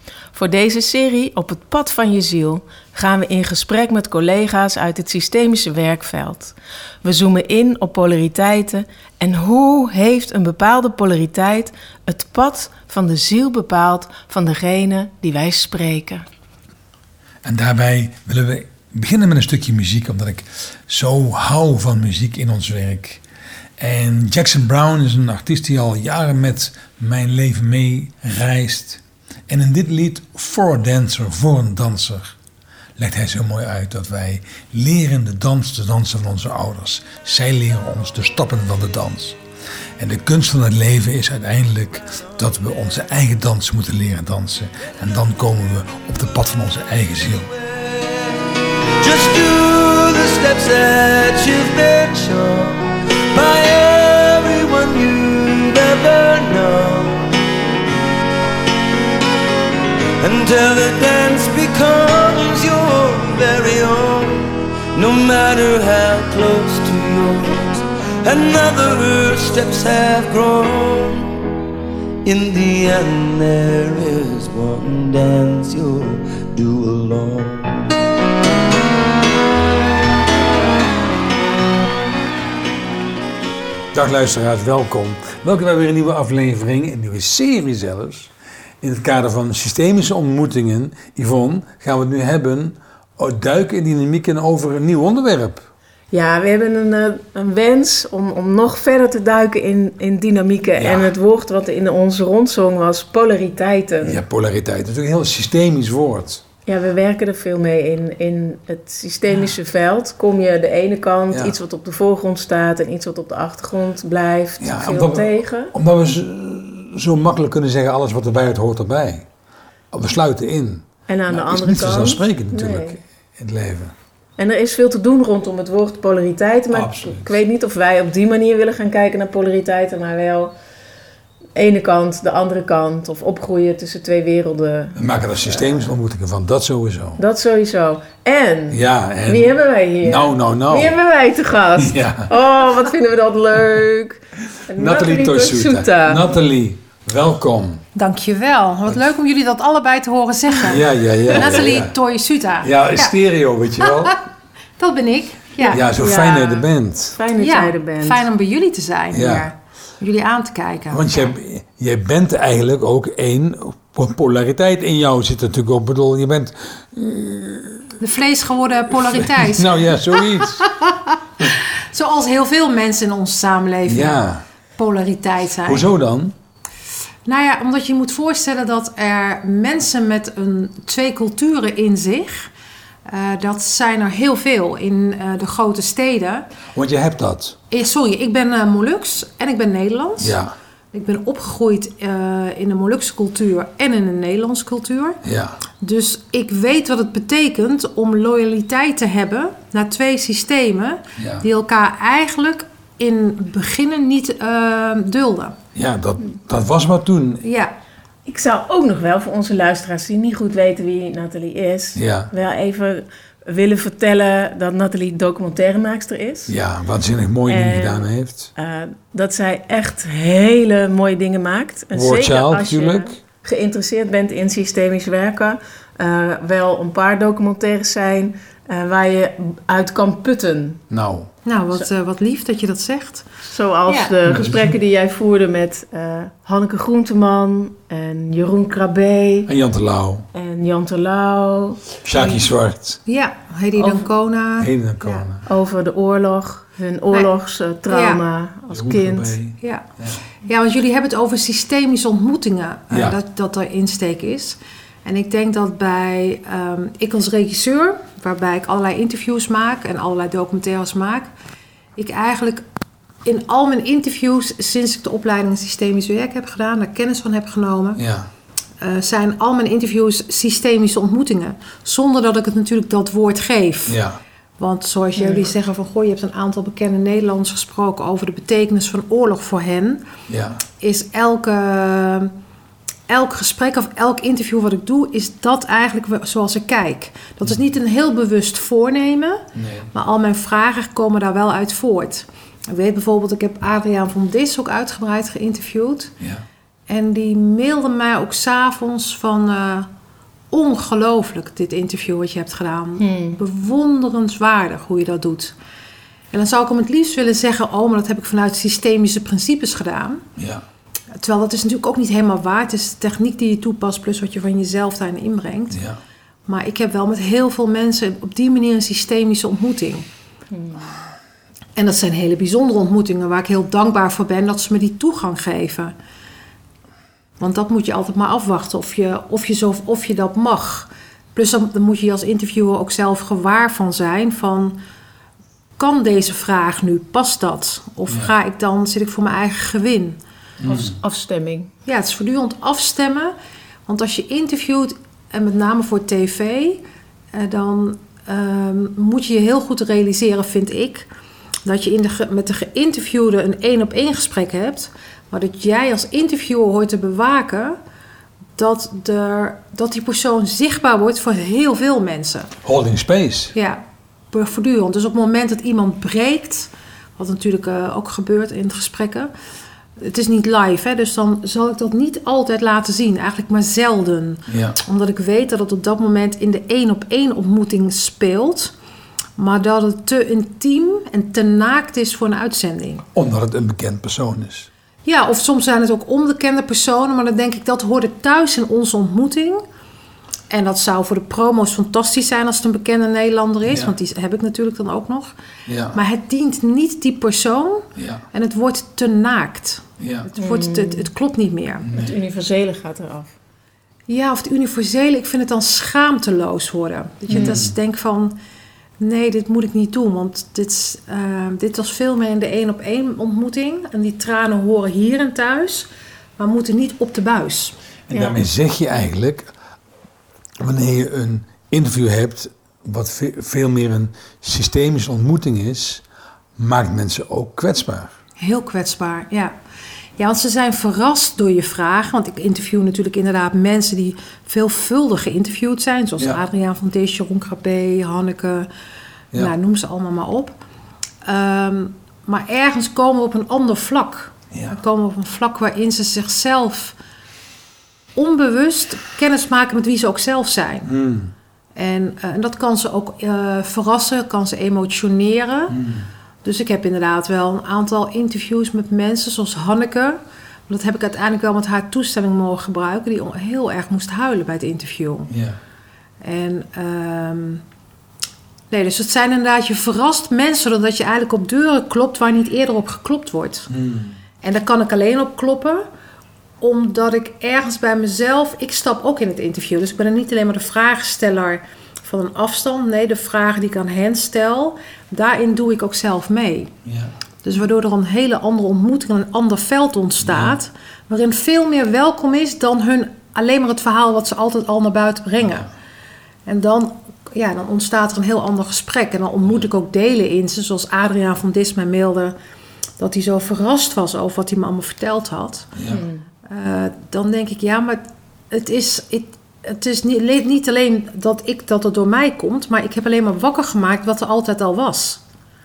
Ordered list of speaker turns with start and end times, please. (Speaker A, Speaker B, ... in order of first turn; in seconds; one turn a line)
Speaker A: 0.3-16.2
Speaker B: 17.4-23.2
Speaker B: 23.8-32.4
Speaker B: 33.0-39.4
Speaker B: 40.0-47.5
Speaker C: 47.5-48.3
Speaker C: 49.0-52.8
Speaker C: 53.3-57.3
Speaker C: 60.2-71.4
Speaker C: 72.2-77.9
Speaker B: 83.9-95.7
Speaker A: 96.1-104.2
Speaker B: 100.8-101.1
Speaker B: 104.0-106.4
Speaker A: 106.7-115.7
Speaker B: 111.3-111.5
Speaker B: 114.6-119.3
Speaker B: 119.9-123.9
Speaker A: 121.1-123.0
Speaker A: 124.4-130.5
Speaker B: 126.7-127.3
Speaker A: 131.6-135.0
Speaker B: 134.9-137.2
Speaker A: 137.2-146.2
Speaker B: 138.7-139.5
Speaker B: 140.0-141.0
Speaker B: 141.8-142.3
Speaker B: 144.8-147.8
Speaker D: 147.9-153.1
Speaker B: 150.6-151.9
Speaker B: 152.6-154.2
Speaker D: 153.8-154.1
Speaker D: 154.8-155.8
Speaker A: 155.6-158.2
Speaker B: 155.7-157.2
Speaker D: 157.4-161.3
Speaker B: 159.1-159.5
Speaker B: 160.9-168.0
Speaker D: 168.0-174.2
Speaker B: 168.9-170.7
Speaker B: 173.9-174.4
Speaker D: 174.8-175.9
Speaker B: 175.7-176.3
Speaker D: 177.2-182.5
Speaker D: 183.1-186.5
Speaker B: 186.7-187.6
Speaker D: 187.7-190.4
Speaker B: 190.2-190.5
Speaker D: 190.9-195.2
Speaker B: 195.2-195.6
Speaker D: 195.8-205.6
Speaker B: 201.2-201.4
Speaker B: 205.7-207.4
Speaker D: 207.4-207.7
Speaker A: 208.2-216.5
Speaker B: 211.9-212.3
Speaker B: 216.5-218.5
Speaker A: 217.5-230.8
Speaker B: 221.9-223.1
Speaker B: 230.9-231.3
Speaker D: 231.4-233.2
Speaker A: 233.5-239.5
Speaker D: 233.9-234.1
Speaker B: 234.3-234.7
Speaker B: 239.5-240.3
Speaker A: 240.3-242.3
Speaker B: 242.0-243.0
Speaker D: 243.1-245.2
Speaker A: 243.8-244.1
Speaker B: 244.6-245.4
Speaker A: 245.4-249.4
Speaker D: 247.9-248.2
Speaker B: 248.7-250.2
Speaker D: 249.6-249.9
Speaker D: 250.4-261.3
Speaker B: 252.9-253.2
Speaker D: 262.0-262.6
Speaker D: 263.2-268.0
Speaker B: 267.9-268.3
Speaker D: 268.8-274.0
Speaker B: 273.9-274.2
Speaker D: 274.6-280.0
Speaker A: 275.2-275.5
Speaker B: 280.3-280.6
Speaker D: 280.8-282.3
Speaker D: 283.1-296.1
Speaker B: 289.5-289.9
Speaker B: 296.2-296.4
Speaker D: 296.9-299.9
Speaker D: 300.5-305.5
Speaker A: 303.0-303.4
Speaker D: 306.3-310.2
Speaker B: 310.4-310.6
Speaker D: 311.2-315.8
Speaker B: 315.7-316.0
Speaker D: 316.5-320.1
Speaker A: 320.5-321.0
Speaker D: 321.8-325.9
Speaker D: 327.4-334.8
Speaker D: 335.8-340.2
Speaker B: 340.6-340.9
Speaker A: 340.7-341.7
Speaker D: 341.8-343.3
Speaker D: 343.9-351.1
Speaker D: 351.6-357.8
Speaker D: 358.6-362.5
Speaker B: 362.6-363.5
Speaker D: 363.5-369.3
Speaker D: 370.0-378.7
Speaker B: 374.5-374.8
Speaker D: 379.4-383.1
Speaker B: 383.1-384.7
Speaker D: 385.0-389.6
Speaker D: 390.5-395.3
Speaker B: 393.6-393.9
Speaker B: 395.6-396.0
Speaker D: 395.9-401.9
Speaker B: 397.9-398.2
Speaker B: 400.0-400.3
Speaker A: 400.4-401.1
Speaker B: 401.8-402.1
Speaker A: 401.9-403.3
Speaker D: 404.1-408.4
Speaker B: 407.3-407.7
Speaker A: 407.3-407.6
Speaker D: 409.0-417.8
Speaker B: 418.1-419.5
Speaker A: 418.1-418.4
Speaker B: 420.6-426.0
Speaker B: 426.6-428.1
Speaker D: 428.4-429.5
Speaker D: 430.2-438.7
Speaker D: 439.3-440.6
Speaker D: 441.2-446.9
Speaker B: 444.5-444.8
Speaker D: 448.1-450.9
Speaker B: 450.9-451.3
Speaker D: 451.8-455.8
Speaker B: 455.7-456.1
Speaker D: 456.4-465.3
Speaker B: 465.3-465.6
Speaker D: 466.2-467.6
Speaker D: 468.7-473.7
Speaker B: 473.7-474.1
Speaker D: 474.4-475.9
Speaker D: 476.6-486.7
Speaker B: 486.8-487.1
Speaker D: 487.4-495.7
Speaker B: 490.2-490.5
Speaker B: 495.4-495.7
Speaker D: 496.4-502.4
Speaker D: 503.0-505.7
Speaker B: 505.7-506.0
Speaker A: 505.9-506.2
Speaker D: 506.4-515.2